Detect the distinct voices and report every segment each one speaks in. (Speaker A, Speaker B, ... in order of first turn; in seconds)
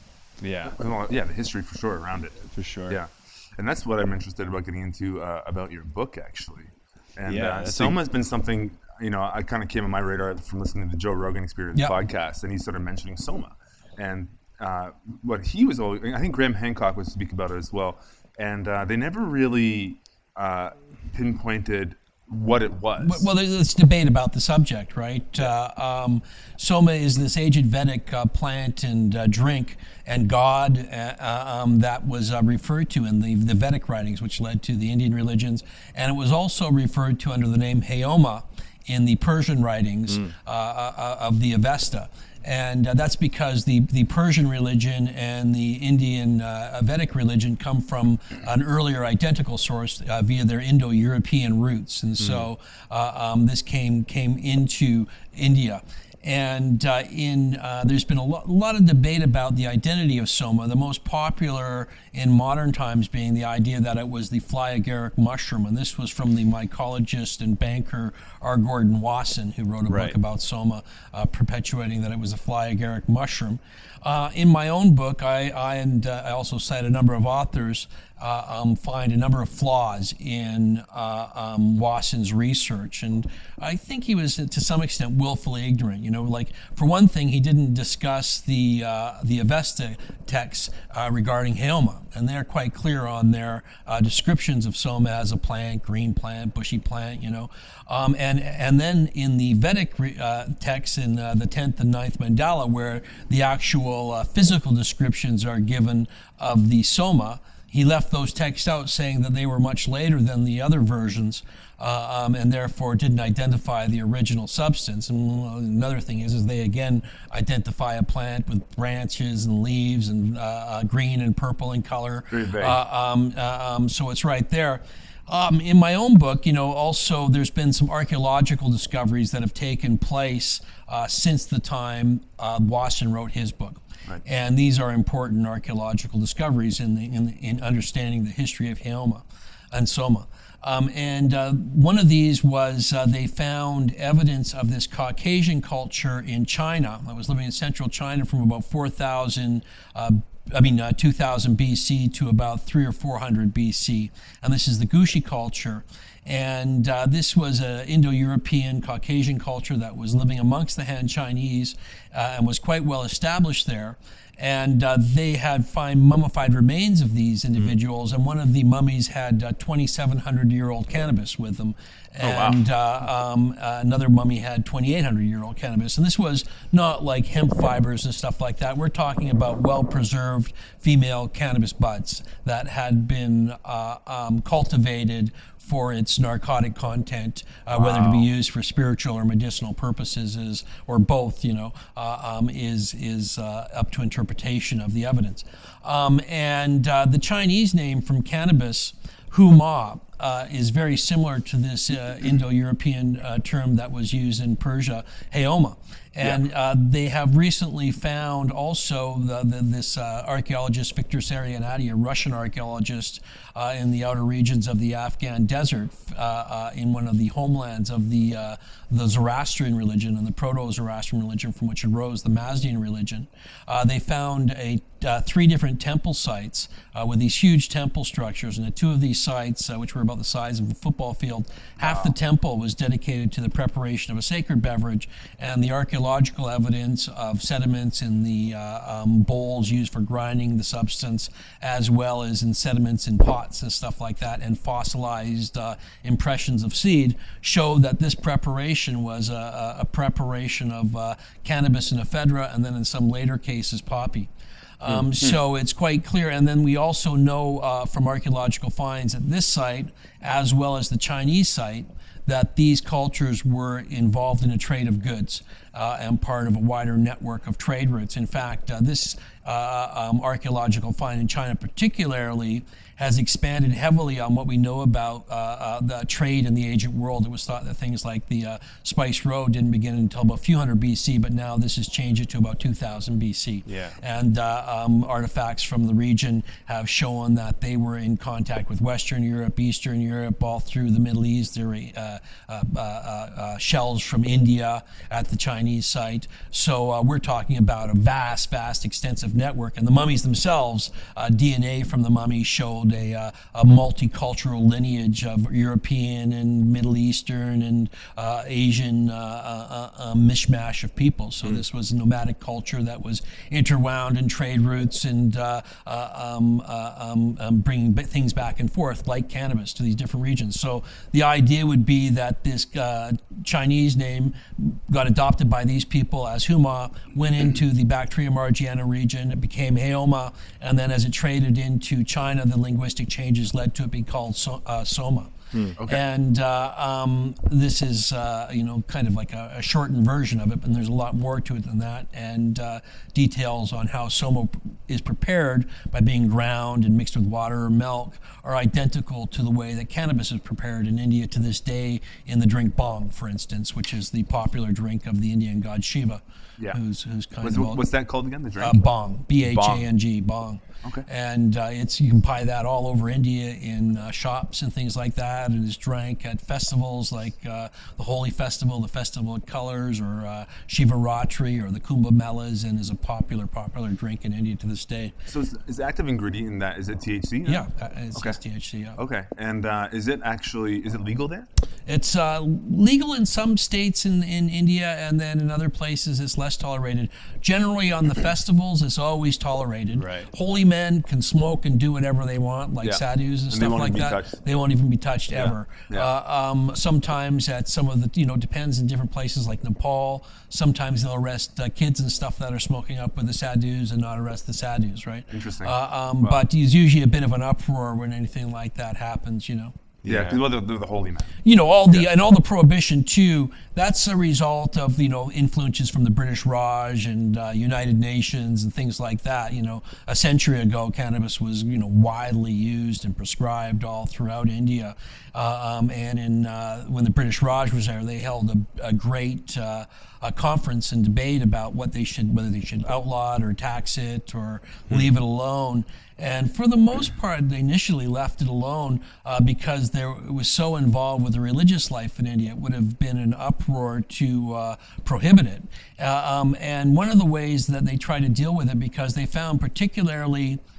Speaker A: 0.4-0.8, 2.5-3.0, 7.3-8.0, 52.2-52.5, 69.9-70.2, 283.7-284.0, 335.5-335.8, 390.0-390.3, 410.0-410.4
Speaker B: 0.8-23.3, 122.3-122.8, 172.2-172.6, 187.8-188.2, 231.8-232.1, 254.9-255.3, 335.8-336.0, 357.4-358.9, 359.4-359.9, 375.3-378.4, 379.0-381.5, 392.8-394.3, 395.4-396.1, 405.3-406.4, 410.1-411.4
Speaker C: 23.0-335.4, 335.9-357.8, 358.6-375.1, 377.4-379.0, 381.9-409.7, 411.4-450.6